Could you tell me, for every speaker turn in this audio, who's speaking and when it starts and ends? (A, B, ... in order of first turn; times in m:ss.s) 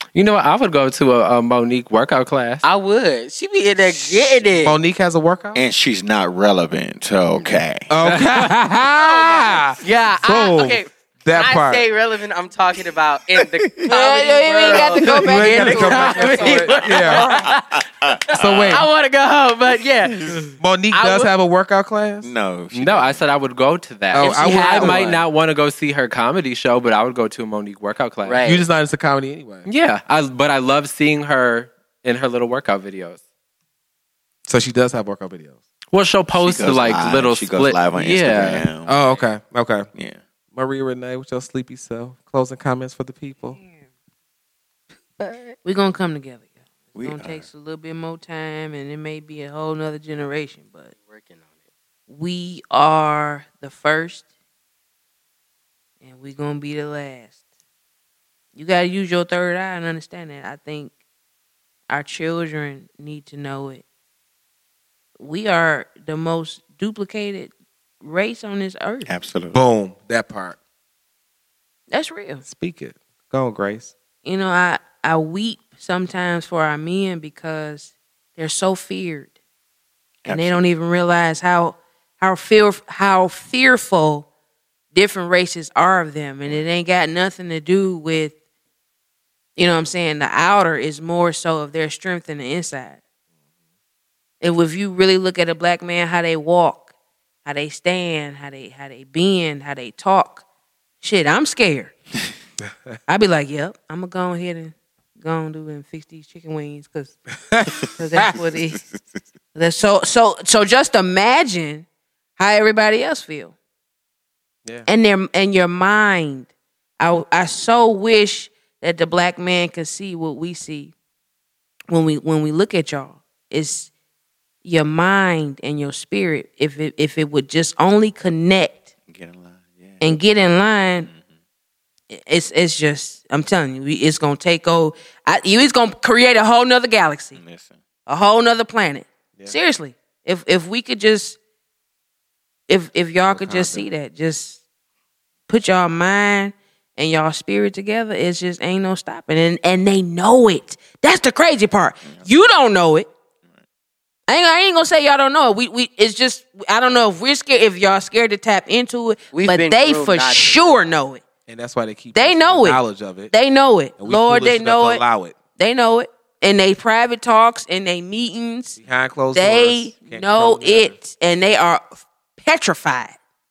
0:00.1-0:02.6 A
0:02.6-0:04.8 B
0:04.6-0:05.6 C
0:05.6-0:07.9 D
0:07.4-0:08.2 A
0:07.9-0:11.8 C
0:09.0-0:21.3 B
0:13.6-0:13.9 D
0:13.8-0:17.5 E
0:15.0-0:17.3 C
0:17.3-0:18.9 D
0:18.3-0:18.9 C
0:20.0-0:20.4 D
0:20.6-0:22.3 C
0:22.2-0:23.2 D
0:22.7-0:28.5 A
0:24.1-0:25.1 C
0:24.2-0:25.2 B
0:28.2-0:28.6 B
0:28.4-0:29.7 C
0:29.6-0:33.2 A
0:34.5-0:35.6 C
0:35.9-0:38.7 A
0:36.3-0:39.0 D
0:38.9-0:39.9 C
0:39.9-0:40.2 D
0:40.5-0:43.6 C
0:45.2-0:45.6 B
0:45.6-0:50.9 E
0:47.0-0:47.5 D
0:50.9-0:51.6 B
0:52.1-0:54.2 E
0:56.0-0:57.4 E
0:58.6-1:00.9 E
1:01.9-1:03.8 E
1:05.2-1:07.5 E
1:08.0-1:09.1 E
1:09.0-1:09.6 D
1:09.5-1:10.6 C
1:11.9-1:12.4 E
1:12.4-1:13.9 C
1:14.2-1:19.3 E
1:20.2-1:20.7 D
1:20.3-1:24.3 E
1:24.9-1:28.3 E
1:29.6-1:33.0 E
1:34.4-1:36.9 E
1:37.4-1:40.4 E
1:41.0-1:41.9 E
1:43.1-1:47.2 E
1:47.5-1:48.3 C
1:47.7-1:48.8 E
1:49.6-1:51.8 E
1:52.4-1:53.5 E
1:54.9-2:00.9 E
2:01.9-2:03.9 E
2:04.6-2:08.9 E
2:09.1-2:10.2 D
2:10.0-2:11.1 E
2:11.0-2:11.2 D
2:12.1-2:17.4 E
2:17.4-2:17.8 D
2:18.1-2:21.4 E
2:22.7-2:24.6 E
2:23.3-2:23.9 C
2:25.5-2:33.1 E
2:34.3-2:41.2 E
2:39.3-2:40.8 B
2:41.5-2:43.3 C
2:42.2-2:42.8 E
2:43.3-2:45.0 E
2:44.0-2:45.4 C
2:45.6-2:48.8 E
2:48.8-2:51.0 C
2:49.4-2:53.2 E